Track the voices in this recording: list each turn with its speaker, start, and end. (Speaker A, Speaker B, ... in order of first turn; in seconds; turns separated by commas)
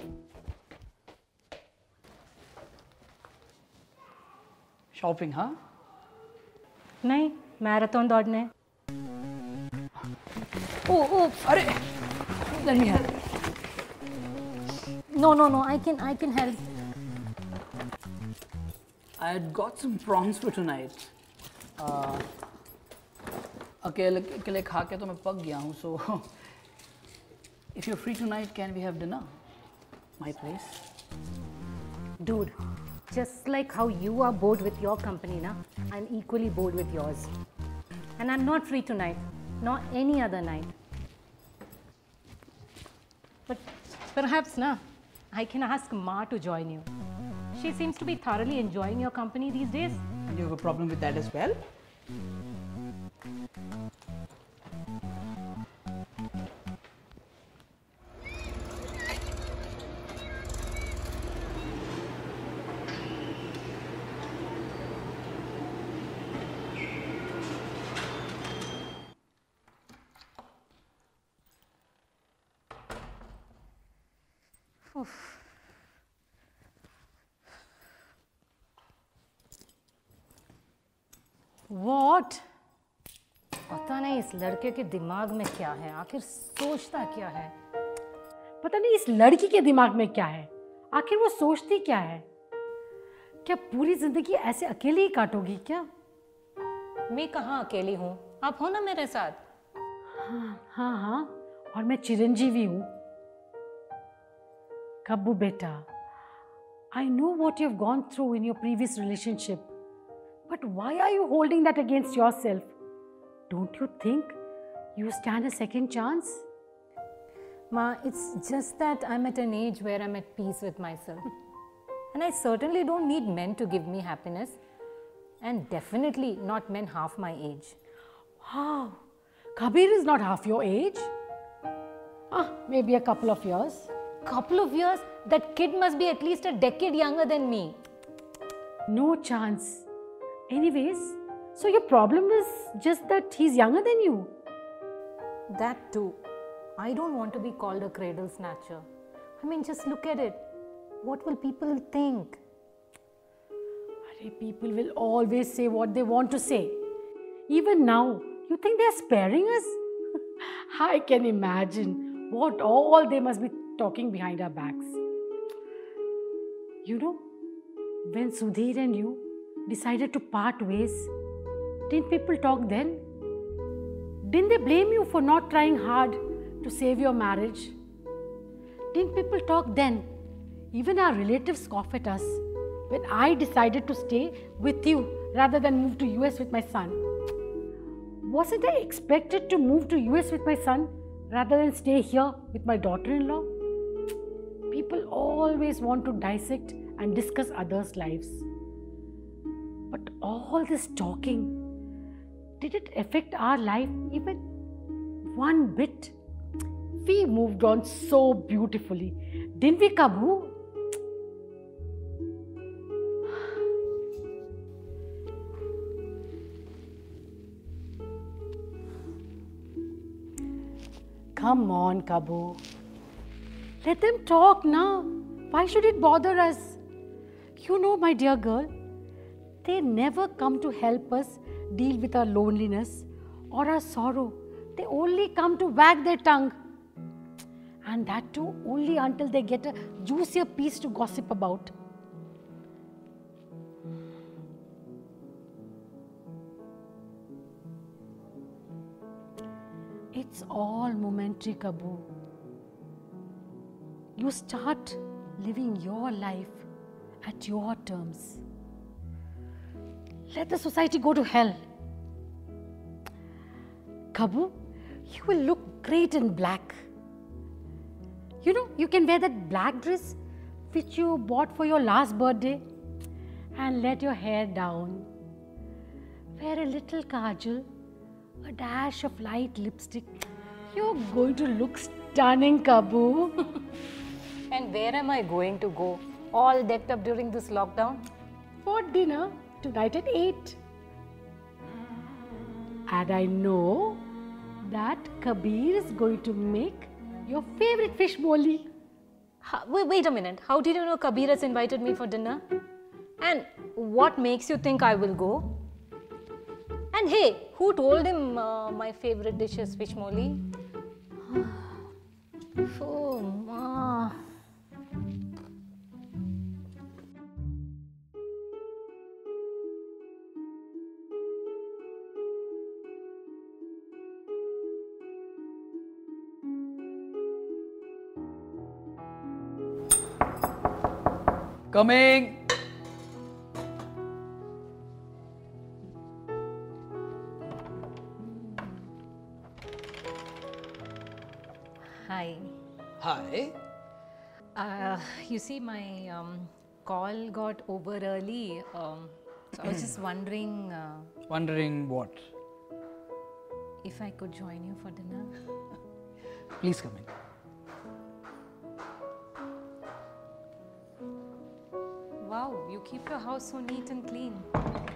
Speaker A: 4.9-5.5, Speaker B: 7.0-8.5, Speaker B: 10.8-11.4, Speaker A: 11.4-11.8, Speaker A: 12.4-13.4, Speaker B: 15.1-16.7, Speaker A: 19.2-21.1, Speaker A: 21.8-22.2, Speaker A: 23.8-26.3, Speaker A: 27.7-29.4, Speaker A: 30.2-30.8, Speaker B: 32.2-32.6, Speaker B: 33.1-37.3, Speaker B: 38.2-40.7, Speaker B: 43.5-46.9, Speaker B: 47.5-50.0, Speaker A: 50.3-51.6, Speaker B: 74.9-75.3, Speaker C: 81.7-82.4, Speaker B: 83.7-87.5, Speaker C: 88.6-92.2, Speaker C: 93.4-95.9, Speaker B: 97.1-99.4, Speaker C: 100.1-102.9, Speaker C: 105.0-105.8, Speaker C: 106.9-109.7, Speaker C: 110.5-112.7, Speaker C: 113.5-114.4, Speaker C: 115.0-116.4, Speaker B: 117.7-121.3, Speaker B: 122.1-124.6, Speaker B: 125.4-127.8, Speaker C: 128.4-129.0, Speaker C: 129.6-131.1, Speaker C: 132.3-133.9, Speaker B: 134.2-137.8, Speaker C: 138.9-139.8, Speaker C: 140.5-144.3, Speaker B: 145.5-146.2, Speaker B: 146.8-148.8, Speaker B: 149.4-150.5, Speaker B: 151.0-152.4, Speaker C: 154.1-156.8, Speaker C: 157.5-159.8, Speaker C: 160.4-165.0, Speaker C: 166.8-167.3, Speaker C: 168.1-171.1, Speaker C: 171.9-173.0, Speaker C: 174.2-177.7, Speaker C: 178.9-180.1, Speaker C: 180.7-187.0, Speaker C: 188.2-193.5, Speaker C: 194.7-198.4, Speaker C: 199.9-201.6, Speaker C: 202.6-204.4, Speaker C: 205.2-206.1, Speaker C: 207.0-210.5, Speaker C: 221.3-222.6, Speaker C: 223.8-226.8, Speaker C: 227.6-228.7, Speaker C: 229.6-236.6, Speaker C: 237.8-241.7, Speaker C: 250.1-252.1, Speaker C: 254.2-256.6, Speaker C: 257.2-258.4, Speaker C: 260.3-261.6, Speaker C: 264.1-264.6, Speaker C: 265.1-266.8, Speaker C: 268.4-270.2, Speaker C: 270.7-272.6, Speaker C: 273.6-275.1, Speaker C: 276.4-277.7, Speaker C: 278.4-280.2, Speaker C: 280.7-283.4, Speaker B: 284.5-288.0, Speaker C: 288.6-290.6, Speaker C: 292.9-294.0, Speaker C: 294.6-298.7, Speaker B: 299.4-302.4, Speaker B: 303.2-305.6, Speaker B: 306.9-310.4, Speaker B: 311.3-311.7, Speaker B: 312.6-314.2, Speaker A: 331.7-332.5, Speaker B: 341.9-342.5, Speaker A: 343.0-343.6, Speaker B: 344.5-351.1, Speaker A: 351.3-352.3, Speaker B: 353.8-355.3, Speaker A: 356.6-357.1, Speaker B: 362.2-364.5